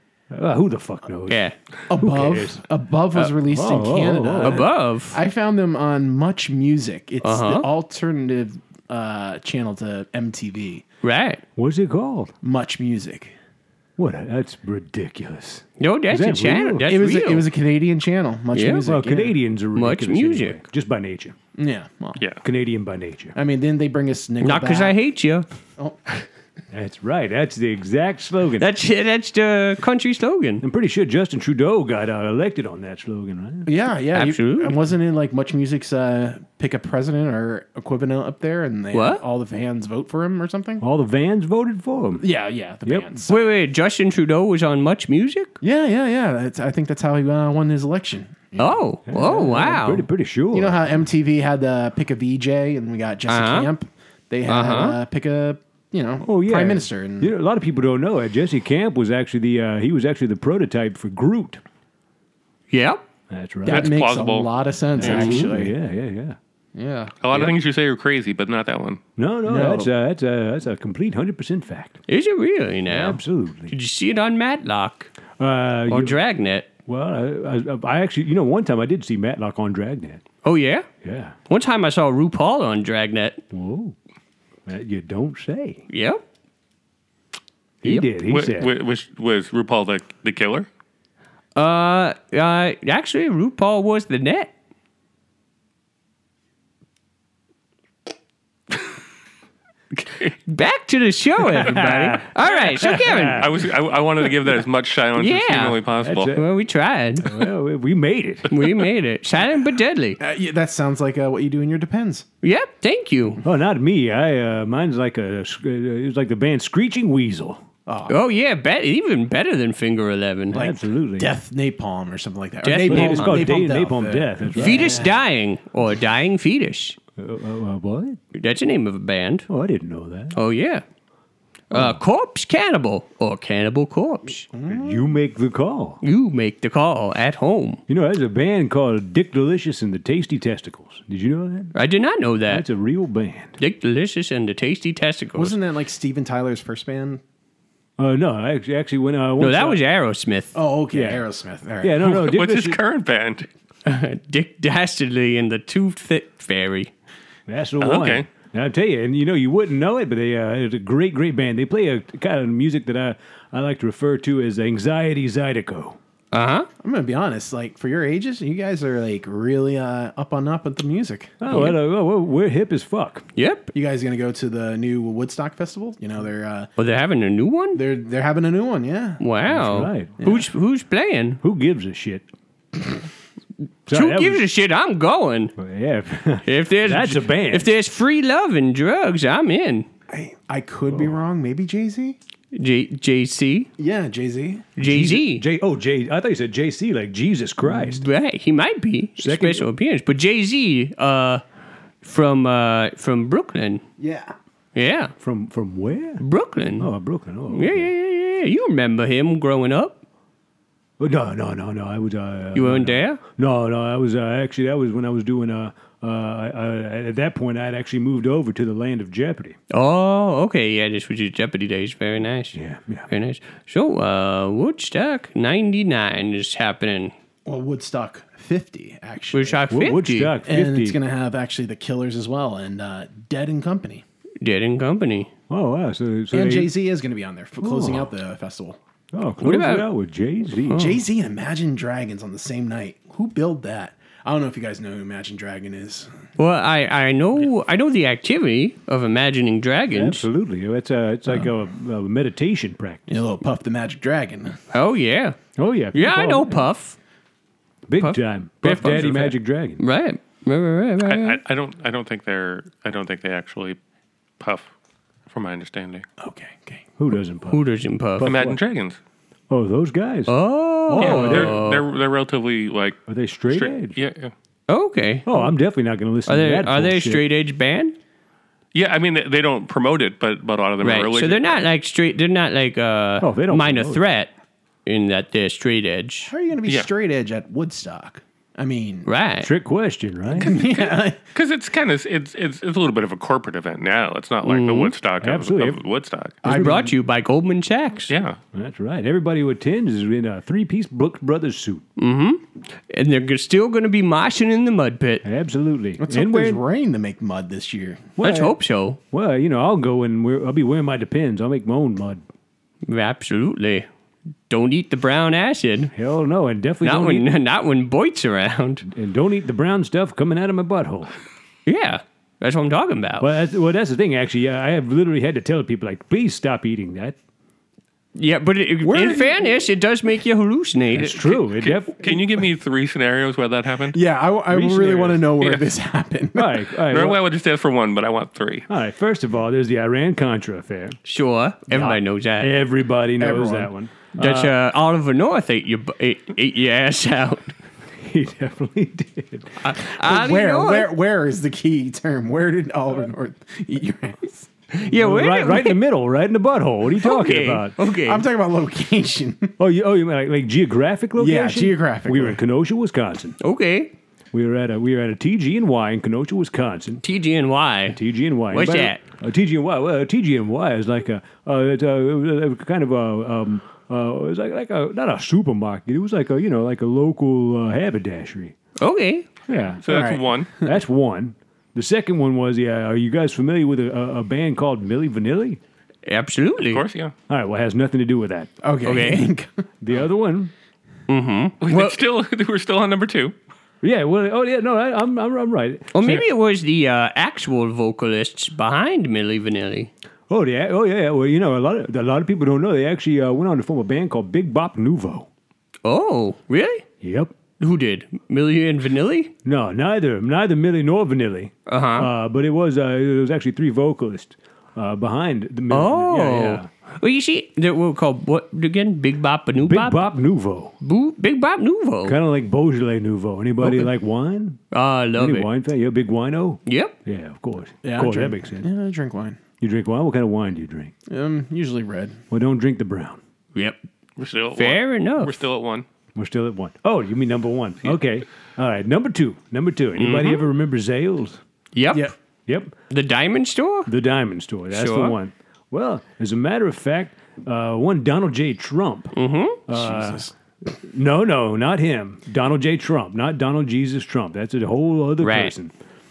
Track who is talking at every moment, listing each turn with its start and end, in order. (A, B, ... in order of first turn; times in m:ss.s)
0:00.3-0:02.6 A
0:01.3-0:01.5 B
0:01.9-0:10.8 C
0:03.2-0:04.7 A
0:04.4-0:05.2 B
0:07.2-0:07.7 B
0:11.0-0:11.4 B
0:11.6-0:12.3 A
0:12.4-0:13.3 C
0:14.0-0:16.9 A
0:15.8-0:17.5 B
0:16.8-0:19.3 C
0:18.5-0:18.8 B
0:18.8-0:21.4 A
0:19.7-0:20.6 B
0:21.6-0:22.2 C
0:22.4-0:23.3 A
0:23.3-0:25.0 C
0:24.4-0:25.5 B
0:26.7-0:28.6 A
0:28.6-0:30.6 B
0:30.6-0:33.7 A
0:33.6-0:40.8 C
0:34.1-0:34.7 B
0:38.9-0:39.2 B
0:40.8-0:42.2 A
0:42.2-0:43.4 C
0:43.3-0:45.5 B
0:45.6-0:48.8 C
0:48.6-0:50.0 B
0:49.1-0:50.9 A
0:50.5-0:57.3 C
0:53.3-0:53.7 B
0:54.4-0:55.0 B
0:56.2-1:01.6 A
1:02.7-1:03.0 B
1:03.3-1:04.0 A
1:03.6-1:05.7 C
1:03.6-1:05.4 D
1:05.0-1:06.4 A
1:06.7-1:07.5 C
1:07.2-1:09.0 D
1:09.2-1:12.0 A
1:09.4-1:09.9 C
1:12.1-1:15.1 B
1:12.9-1:13.7 A
1:15.4-1:16.2 A
1:15.9-1:16.7 B
1:16.8-1:20.2 A
1:20.4-1:20.9 B
1:21.0-1:21.4 A
1:21.5-1:23.4 B
1:23.5-1:23.9 A
1:24.6-1:25.8 A
1:25.9-1:26.2 B
1:27.8-1:28.7 A
1:28.2-1:30.7 D
1:31.6-1:34.5 B
1:40.0-1:40.3 D
1:40.4-1:43.4 B
1:41.4-1:43.7 A
1:43.4-1:46.3 D
1:45.2-1:47.4 B
1:46.0-1:46.5 A
1:47.2-1:48.5 A
1:48.5-1:50.2 B
1:50.2-1:52.2 C
1:52.4-1:53.4 B
1:53.4-1:57.6 A
1:57.8-1:58.2 C
1:58.1-2:00.6 B
2:00.5-2:05.1 C
2:00.5-2:01.3 A
2:02.6-2:03.5 B
2:02.8-2:05.1 A
2:04.6-2:07.0 B
2:07.2-2:08.2 A
2:08.3-2:09.5 B
2:09.5-2:10.4 A
2:10.3-2:10.8 B
2:11.7-2:14.4 B
2:11.7-2:12.0 A
2:14.5-2:15.1 C
2:14.7-2:16.0 A
2:16.0-2:17.8 B
2:17.9-2:21.7 A
2:21.7-2:22.6 B
2:22.5-2:23.6 A
2:23.6-2:25.6 B
2:25.4-2:27.2 C
2:28.0-2:29.8 A
2:29.4-2:30.5 B
2:30.5-2:32.0 C
2:30.9-2:31.2 A
2:31.8-2:32.8 A
2:32.0-2:33.5 D
2:33.8-2:36.9 B
2:37.5-2:46.0 A
2:37.8-2:38.3 D
2:46.3-2:46.7 B
2:46.8-2:51.3 C
2:51.4-2:53.2 A
2:51.5-2:51.8 B
2:53.4-2:53.7 B
2:53.7-2:56.7 C
2:56.8-2:57.8 B
2:57.7-2:59.2 C
2:59.2-3:01.4 B
2:59.5-3:00.1 A
3:00.2-3:00.5 C
3:01.4-3:02.2 A
3:03.9-3:04.4 A
3:03.9-3:05.5 B
3:05.6-3:07.7 A
3:06.4-3:09.9 B
3:10.1-3:12.2 C
3:10.9-3:11.2 A
3:12.5-3:13.7 B
3:13.8-3:14.7 C
3:14.8-3:15.4 B
3:14.8-3:18.0 A
3:17.8-3:21.4 B
3:19.2-3:19.7 A
3:22.0-3:23.8 B
3:24.0-3:24.3 C
3:24.7-3:25.1 B
3:25.2-3:26.2 A
3:26.2-3:26.9 B
3:26.8-3:27.9 A
3:27.5-3:30.0 B
3:31.0-3:39.6 A
3:32.5-3:33.2 B
3:39.7-3:42.6 B
3:42.5-3:43.1 A
3:43.1-3:47.1 B
3:47.4-3:49.7 C
3:49.3-3:50.4 B
3:49.7-3:51.0 A
3:50.4-3:54.0 C
3:54.4-3:55.3 B
3:55.5-3:56.7 A
3:56.3-3:58.8 C
3:57.6-3:58.1 A
3:59.1-4:01.0 A
3:59.4-3:59.9 B
4:00.7-4:01.0 B
4:00.7-4:06.1 C
4:06.4-4:10.2 B
4:09.9-4:13.2 A
4:13.1-4:14.6 C
4:14.7-4:15.4 B
4:15.6-4:16.7 A
4:15.9-4:17.0 B
4:17.9-4:19.8 A
4:18.0-4:21.4 B
4:21.0-4:23.8 D
4:24.4-4:24.7 D
4:25.3-4:26.0 D
4:26.2-4:26.8 C
4:27.0-4:27.6 A
4:27.5-4:28.3 B
4:28.2-4:28.6 A
4:28.2-4:29.0 D
4:29.5-4:30.3 A
4:30.3-4:31.8 B
4:30.9-4:31.6 A
4:31.0-4:34.3 D
4:33.1-4:34.0 A
4:34.7-4:35.5 B
4:35.2-4:37.2 A
4:36.2-4:37.9 B
4:38.7-4:41.6 D
4:40.8-4:44.3 B
4:43.2-4:44.0 A
4:44.8-4:46.3 B
4:46.2-4:49.1 C
4:49.0-4:49.5 B
4:49.4-4:50.5 A
4:50.3-4:51.2 C
4:50.5-4:56.4 D
4:54.4-4:54.9 B
4:55.2-4:55.8 A
4:56.4-4:56.8 A
4:56.4-4:56.9 C
4:56.4-4:58.1 B
4:58.1-4:58.4 D
4:58.5-5:01.8 A
5:02.0-5:05.2 B
5:05.2-5:06.6 A
5:06.0-5:08.1 C
5:08.2-5:08.6 A
5:08.2-5:09.0 B
5:09.1-5:12.2 A
5:12.8-5:13.8 B
5:14.5-5:15.9 B
5:15.9-5:17.3 A
5:16.8-5:18.8 B
5:18.8-5:21.1 A
5:21.6-5:23.3 B
5:23.2-5:27.2 A
5:28.1-5:31.2 B
5:28.8-5:29.5 C
5:30.9-5:32.2 A
5:31.1-5:34.0 D
5:33.9-5:36.5 C
5:34.5-5:35.2 A
5:35.4-5:35.7 D
5:36.3-5:37.2 A
5:36.9-5:38.7 D
5:38.7-5:41.0 A
5:41.0-5:42.5 B
5:41.7-5:44.6 A
5:43.2-5:43.7 C
5:44.2-5:47.6 B
5:48.0-5:49.6 A
5:49.6-5:50.9 B
5:49.8-5:54.5 C
5:54.7-5:55.8 B
5:54.8-5:57.8 A
5:57.0-5:58.2 B
5:57.9-5:59.6 C
5:59.6-6:03.4 A
6:01.2-6:02.4 C
6:03.4-6:03.9 B
6:04.3-6:07.0 A
6:07.0-6:08.0 B
6:07.9-6:18.5 A
6:08.5-6:09.0 B
6:18.8-6:19.3 B
6:19.5-6:19.8 A
6:19.5-6:20.5 D
6:19.8-6:20.8 C
6:20.6-6:25.6 A
6:26.0-6:26.8 B
6:26.7-6:27.1 D
6:27.3-6:28.5 A
6:28.6-6:29.6 C
6:28.8-6:29.3 B
6:29.8-6:30.5 A
6:31.1-6:32.0 B
6:31.6-6:33.3 D
6:33.8-6:36.2 A
6:35.9-6:39.9 B
6:40.3-6:45.3 A
6:45.8-6:46.8 B
6:47.0-6:47.3 A
6:47.6-6:49.3 B
6:49.4-6:56.7 A
6:51.7-6:52.1 B
6:55.7-7:00.0 B
6:59.6-7:00.7 A
7:00.8-7:02.2 B
7:02.0-7:04.6 A
7:04.7-7:05.5 B
7:05.1-7:08.7 A
7:06.6-7:07.0 B
7:07.8-7:09.4 C
7:09.6-7:10.9 A
7:11.1-7:12.2 C
7:12.3-7:13.2 A
7:13.5-7:13.8 B
7:14.2-7:15.8 D
7:14.5-7:15.4 B
7:16.1-7:21.4 A
7:20.0-7:20.4 B
7:21.7-7:22.1 B
7:22.5-7:22.7 A
7:22.9-7:23.9 B
7:23.9-7:29.1 A
7:24.7-7:25.2 B
7:29.1-7:29.6 B
7:29.7-7:35.7 A
7:29.7-7:30.3 C
7:35.2-7:35.5 B